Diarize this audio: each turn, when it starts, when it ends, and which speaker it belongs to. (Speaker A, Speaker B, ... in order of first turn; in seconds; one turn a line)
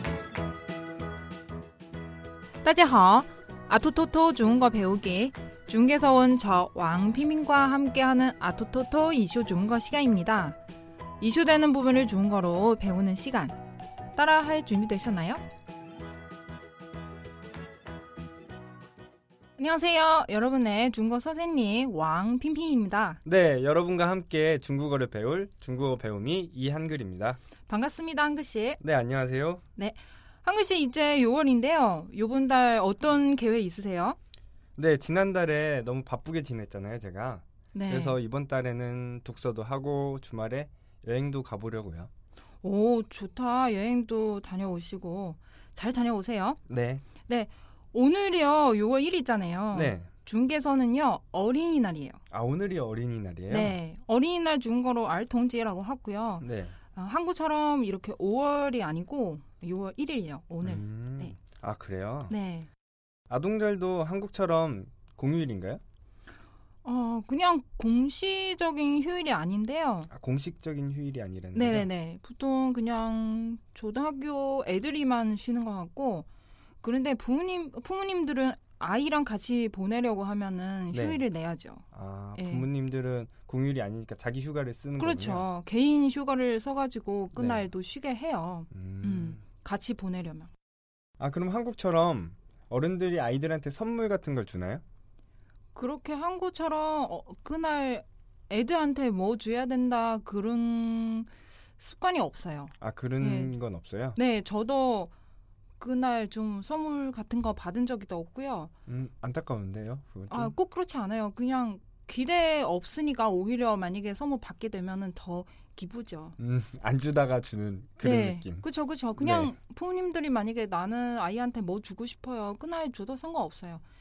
Speaker A: 2.6-10.6
Speaker A: 11.2-13.6
Speaker A: 14.1-15.4
Speaker A: 19.6-23.2
Speaker B: 23.2-27.4
Speaker A: 27.7-28.8
Speaker B: 28.8-29.6
Speaker A: 29.8-34.2
Speaker B: 34.8-42.1
Speaker A: 37.7-38.2
Speaker A: 42.6-46.6
Speaker B: 46.7-47.1
Speaker A: 47.2-52.2
Speaker B: 49.7-50.1
Speaker B: 52.3-53.8
Speaker A: 53.5-61.4
Speaker B: 56.4-56.8
Speaker B: 60.6-62.3
Speaker A: 62.3-62.7
Speaker B: 63.3-65.8
Speaker A: 66.8-70.1
Speaker B: 70.1-71.9
Speaker A: 71.5-76.3
Speaker A: 76.8-81.8
Speaker B: 80.9-81.2
Speaker B: 81.9-85.5
Speaker A: 82.4-82.7
Speaker A: 85.0-90.5
Speaker B: 87.3-87.7
Speaker B: 88.7-89.4
Speaker B: 91.2-94.8
Speaker A: 95.7-103.5
Speaker B: 102.8-104.2
Speaker A: 104.2-105.1
Speaker A: 105.8-108.7
Speaker B: 108.9-110.5
Speaker A: 110.3-116.4
Speaker B: 116.4-119.5
Speaker A: 118.0-123.8